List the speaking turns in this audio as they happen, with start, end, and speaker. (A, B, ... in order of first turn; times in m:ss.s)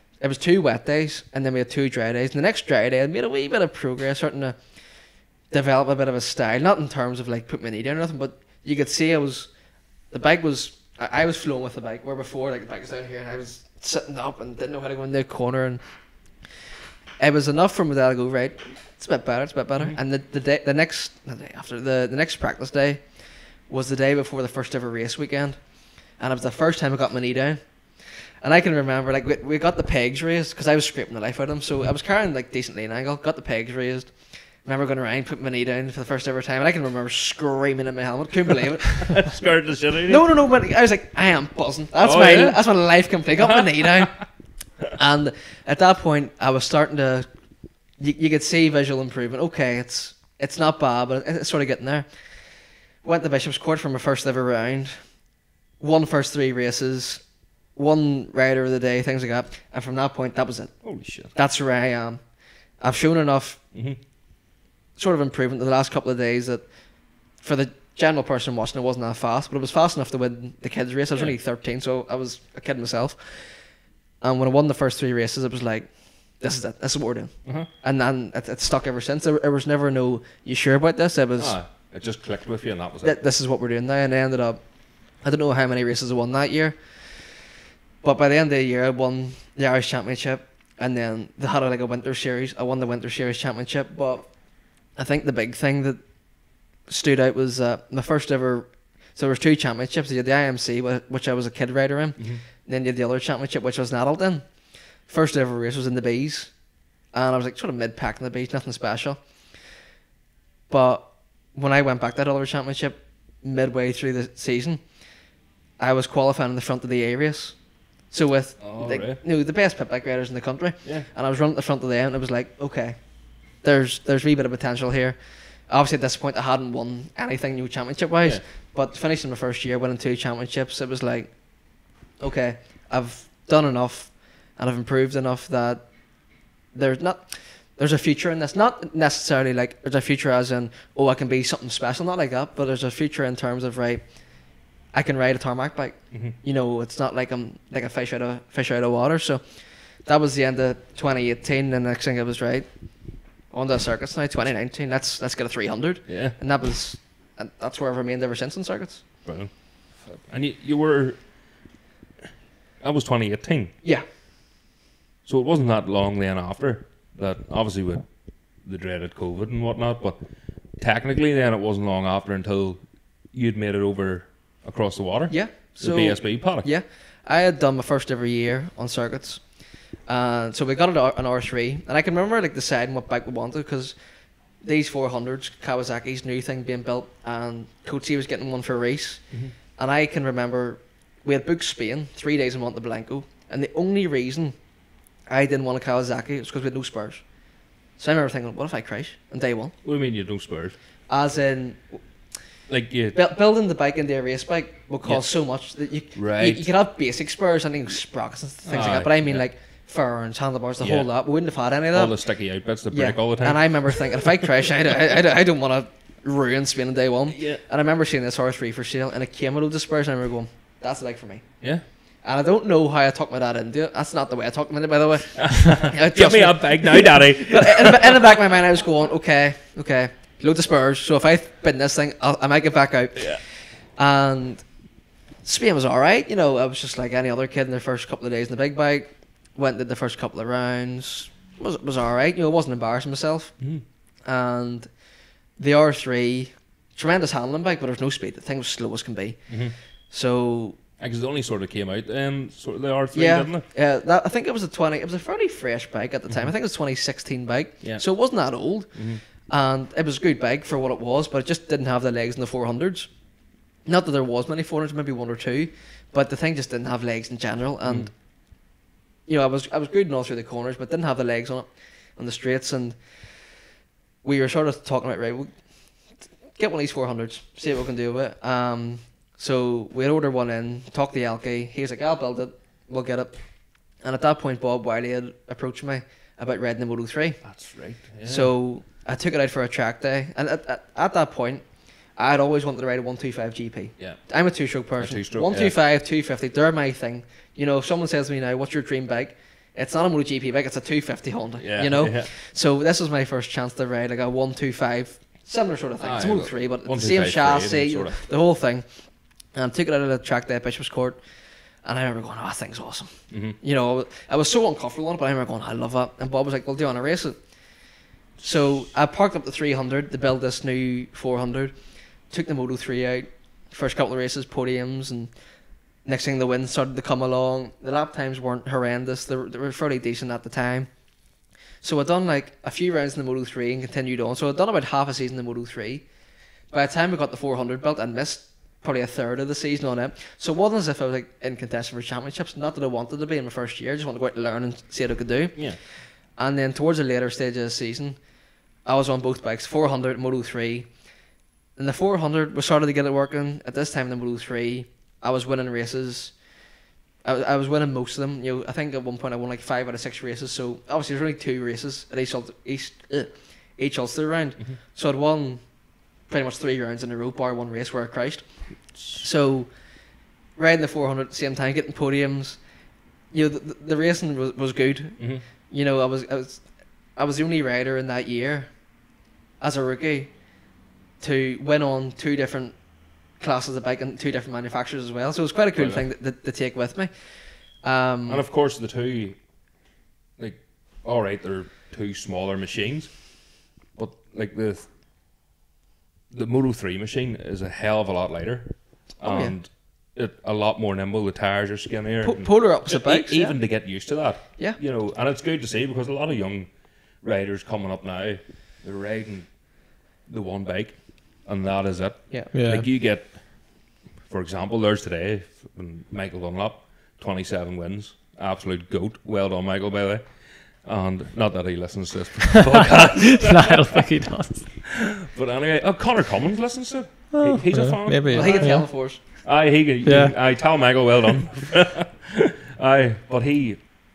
0:00.2-0:04.6 A
0:05.5-0:09.5 A
0:10.1-0:15.8 A
0:17.2-0:23.0 A
0:23.7-0:25.6 A
0:26.2-0:27.6 A
0:28.4-0:34.1 A
0:34.6-0:39.2 A
0:38.9-0:40.2 B
0:40.1-0:44.2 A
0:42.0-0:42.6 B
0:43.5-0:44.2 B
0:44.9-0:47.3 A
0:48.0-0:52.1 A
0:53.0-0:55.0 A
0:55.8-0:57.2 A
0:57.7-1:00.8 A
1:00.8-1:01.3 B
1:01.3-1:02.2 A
1:02.8-1:03.6 A
1:03.7-1:04.0 B
1:05.0-1:06.6 A
1:07.4-1:13.5 A
1:14.2-1:15.9 A
1:16.4-1:21.6 A
1:21.4-1:23.2 B
1:23.0-1:24.6 A
1:25.2-1:26.8 A
1:28.0-1:34.3 A
1:35.0-1:36.0 A
1:36.9-1:44.5 A
1:42.2-1:42.4 B
1:45.0-1:46.5 A
1:47.1-1:49.2 A
1:50.7-1:54.8 A
1:55.8-1:57.6 A
1:58.1-2:03.0 A
1:58.6-1:59.2 B
2:03.6-2:05.2 A
2:05.7-2:11.3 A
2:12.2-2:15.8 A
2:16.7-2:24.0 A
2:24.9-2:29.4 A
2:30.0-2:32.7 A
2:33.5-2:39.0 A
2:36.1-2:36.4 B
2:39.2-2:39.5 B
2:40.0-2:41.2 B
2:42.8-2:43.7 B
2:45.3-2:48.1 B
2:48.6-2:50.2 B
2:50.8-2:56.7 B
2:55.3-2:59.4 A
3:00.0-3:04.0 A
3:04.6-3:09.3 A
3:09.8-3:14.6 A
3:15.3-3:17.2 A
3:18.0-3:19.7 A
3:19.8-3:20.8 B
3:21.1-3:22.0 A
3:22.7-3:23.2 B
3:23.1-3:32.1 A
3:26.2-3:26.7 B
3:28.6-3:29.5 B
3:30.8-3:31.1 B
3:31.9-3:34.3 B
3:32.9-3:41.4 A
3:37.3-3:37.6 B
3:42.2-3:54.6 A
3:45.3-3:48.2 B
3:53.2-3:53.4 B
3:55.4-4:03.6 A
4:03.6-4:03.8 B
4:04.2-4:04.9 A
4:05.6-4:10.8 A
4:09.5-4:09.7 B
4:11.0-4:13.6 B
4:13.1-4:19.0 A
4:18.9-4:19.2 B
4:19.5-4:23.1 A
4:23.9-4:28.1 A
4:27.8-4:28.1 B
4:29.3-4:33.0 A
4:34.2-4:35.5 A
4:36.5-4:43.4 A
4:44.0-4:47.4 A
4:47.4-4:48.5 B
4:48.2-4:51.6 A
4:52.2-5:08.9 A
4:55.0-4:55.8 B
5:01.6-5:02.3 B
5:06.0-5:08.2 B
5:09.5-5:11.2 A
5:11.8-5:17.4 A
5:13.3-5:13.6 B
5:18.4-5:21.8 A
5:22.3-5:25.3 A
5:26.0-5:30.9 A
5:31.8-5:36.0 A
5:36.7-5:45.8 A
5:46.4-5:48.2 A
5:48.8-5:50.9 A
5:51.8-5:56.4 A
5:57.2-6:05.6 A
6:06.3-6:09.7 A
6:08.9-6:09.2 B
6:10.6-6:12.6 A
6:13.3-6:16.6 A
6:15.2-6:15.4 B
6:17.2-6:18.7 A
6:19.6-6:20.3 A
6:21.2-6:22.8 A
6:23.4-6:27.1 A
6:25.8-6:26.0 B
6:27.8-6:28.4 A
6:28.3-6:29.4 B
6:30.4-6:33.3 B
6:33.9-6:34.9 B
6:36.3-6:49.6 B
6:39.2-6:39.6 A
6:42.2-6:43.6 A
6:50.2-7:04.0 B
6:52.5-6:52.9 C
7:03.4-7:04.8 C
7:04.9-7:13.9 B
7:07.3-7:09.4 C
7:08.3-7:09.2 A
7:10.0-7:10.4 C